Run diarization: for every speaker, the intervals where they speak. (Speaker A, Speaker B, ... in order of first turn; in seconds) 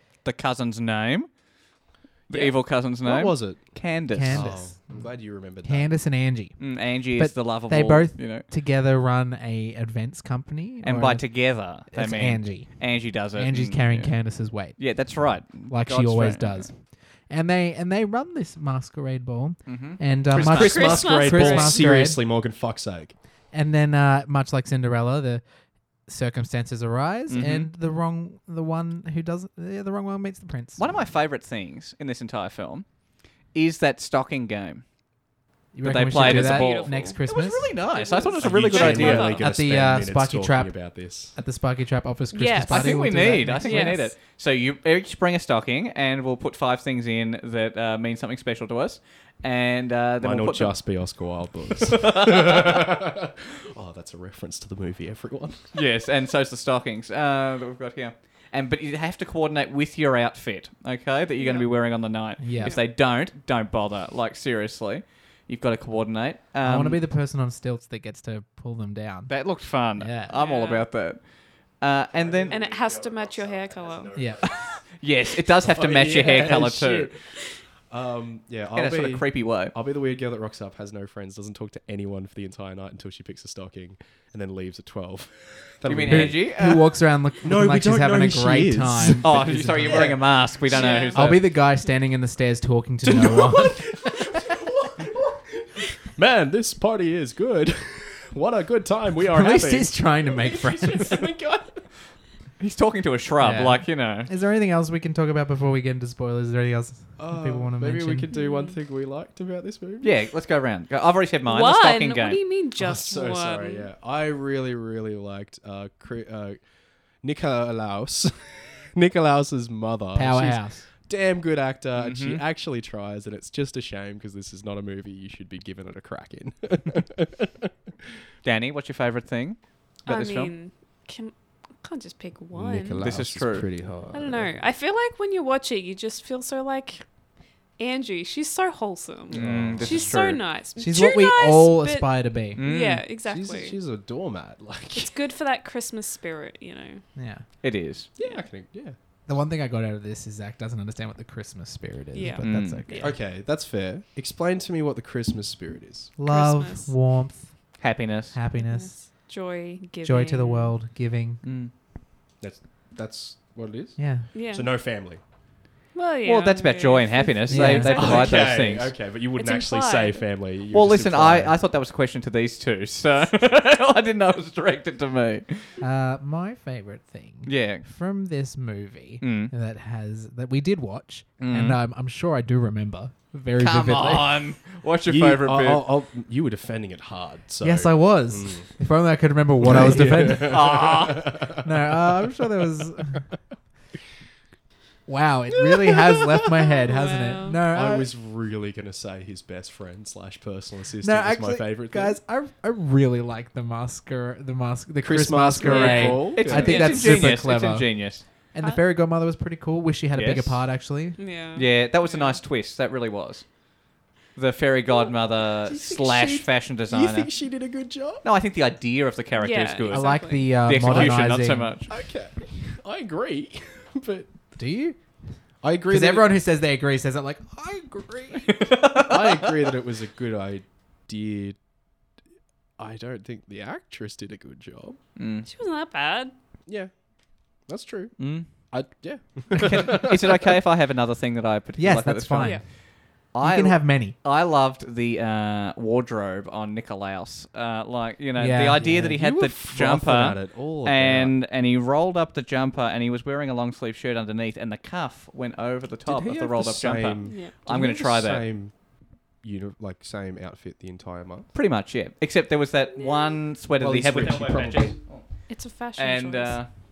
Speaker A: 0.2-1.3, 2.3-4.7, 6.6-8.4, 10.8-16.7, 19.6-21.0, 27.3-27.7, 30.8-32.9, 33.5-34.8, 35.8-39.4, 42.6-50.8, 51.8-52.9, 55.7-67.0, 69.3-71.2, 71.8-72.6, 74.4-77.1, 78.7-79.7, 85.8-86.8, 89.2-91.5, 102.6-104.3, 110.0-112.4, 122.0-122.4, 128.4-130.5, 133.0-133.7, 139.3-140.3, 142.6-143.1, 147.6-148.1, 152.4-152.8, 157.8-158.4, 161.4-161.7, 166.2-168.9, 170.7-175.7, 177.4-177.9, 179.2-179.5, 181.4-181.8, 183.6-185.8, 190.4-191.4, 205.6-208.2, 210.1-210.6, 211.5-213.5, 214.3-217.3, 218.2-221.9, 228.5-229.5, 235.2-235.5, 238.2-238.5, 239.6-258.5, 261.5-265.2, 265.9-266.7
Speaker B: 2.3-5.9, 20.4-23.1, 38.4-41.4, 50.2-55.7, 72.1-74.7, 75.6-77.2, 77.9-86.5, 87.4-91.3, 93.0-101.9, 107.2-110.1, 112.8-116.6, 117.2-127.7, 132.5-134.6, 139.4-140.4, 143.2-145.1, 148.2-148.9, 153.0-156.1, 162.4-165.2, 167.7-171.6, 185.1-188.7, 189.6-192.2, 195.8-196.5, 197.7-202.2, 205.0-206.9, 215.7-218.2, 220.9-221.1, 221.9-224.3, 225.6-226.3, 228.9-231.6, 232.8-235.0, 236.7-236.9, 237.7-240.6, 248.8-251.3, 256.1-258.9, 259.4-261.5, 263.8-265.0
Speaker C: 4.1-5.0, 5.6-15.0, 15.6-22.2, 23.5-25.4, 26.0-31.0, 35.7-37.7, 39.4-44.1, 62.4-62.7, 66.6-69.3, 70.0-70.3, 74.1-74.4, 86.1-90.1, 91.1-94.3, 99.3-101.3, 103.4-108.3, 120.1-120.8, 140.8-142.6, 147.2-147.4, 149.3-153.0, 156.2-159.1, 160.0-161.4, 164.0-164.3, 167.5-168.0, 175.8-184.4, 187.6-190.8, 191.6-193.3, 195.1-198.1, 201.0-211.2, 219.9-221.7, 224.6-225.0, 225.9-228.7, 241.8-244.2, 248.4-249.2
Speaker D: 20.5-21.8, 36.1-39.4, 42.3-44.0, 61.4-61.7, 62.5-62.8, 70.3-70.8, 72.5-74.3, 90.7-91.2, 108.3-108.8, 111.5-113.9, 130.1-133.0, 134.1-137.0, 137.8-143.8, 144.9-147.0, 148.2-148.4, 152.1-153.2, 156.3-156.9, 158.5-160.7, 164.3-164.7, 165.9-168.7, 169.3-170.2, 196.8-197.6, 205.7-207.1, 211.2-212.4, 219.3-220.5, 235.4-236.3, 257.2-257.5, 262.9-263.4, 265.5-266.6